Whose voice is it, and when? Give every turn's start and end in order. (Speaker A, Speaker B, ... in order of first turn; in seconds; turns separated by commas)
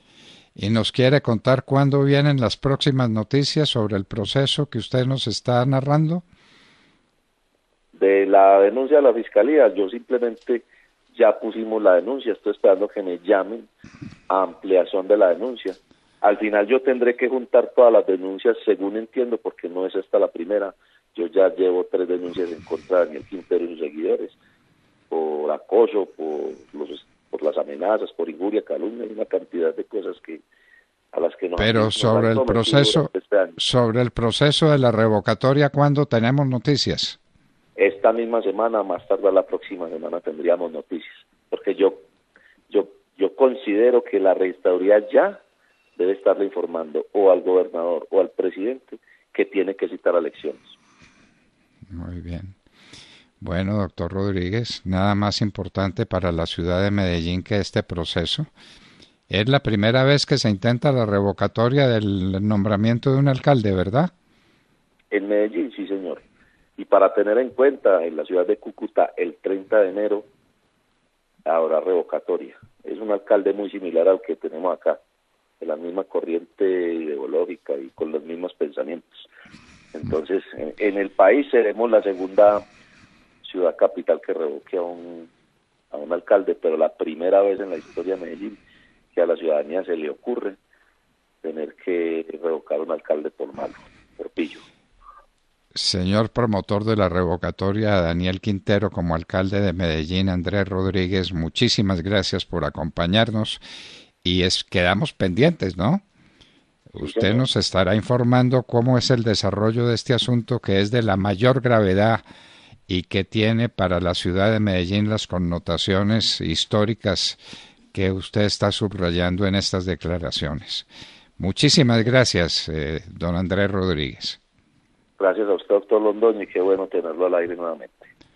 Speaker A: 0.6-6.2, Speaker B: 7.9-13.7, Speaker B: 14.3-24.3, Speaker B: 25.1-30.4, Speaker B: 31.1-33.6, Speaker A: 31.6-37.2, Speaker B: 37.8-42.0, Speaker B: 42.7-45.4, Speaker B: 46.0-50.7, Speaker A: 51.9-52.5, Speaker A: 53.4-58.5, Speaker A: 59.3-64.1, Speaker B: 65.1-66.2, Speaker B: 66.8-70.3, Speaker B: 71.5-75.0, Speaker B: 75.6-79.3, Speaker B: 79.9-82.6, Speaker B: 83.4-85.3, Speaker B: 85.9-88.6, Speaker B: 89.1-90.6, Speaker B: 91.4-94.6, Speaker A: 95.7-103.6, Speaker A: 104.2-106.0, Speaker A: 106.9-112.2, Speaker B: 107.0-107.5, Speaker A: 112.9-117.4, Speaker A: 117.9-120.9, Speaker A: 121.4-124.4, Speaker B: 125.2-128.1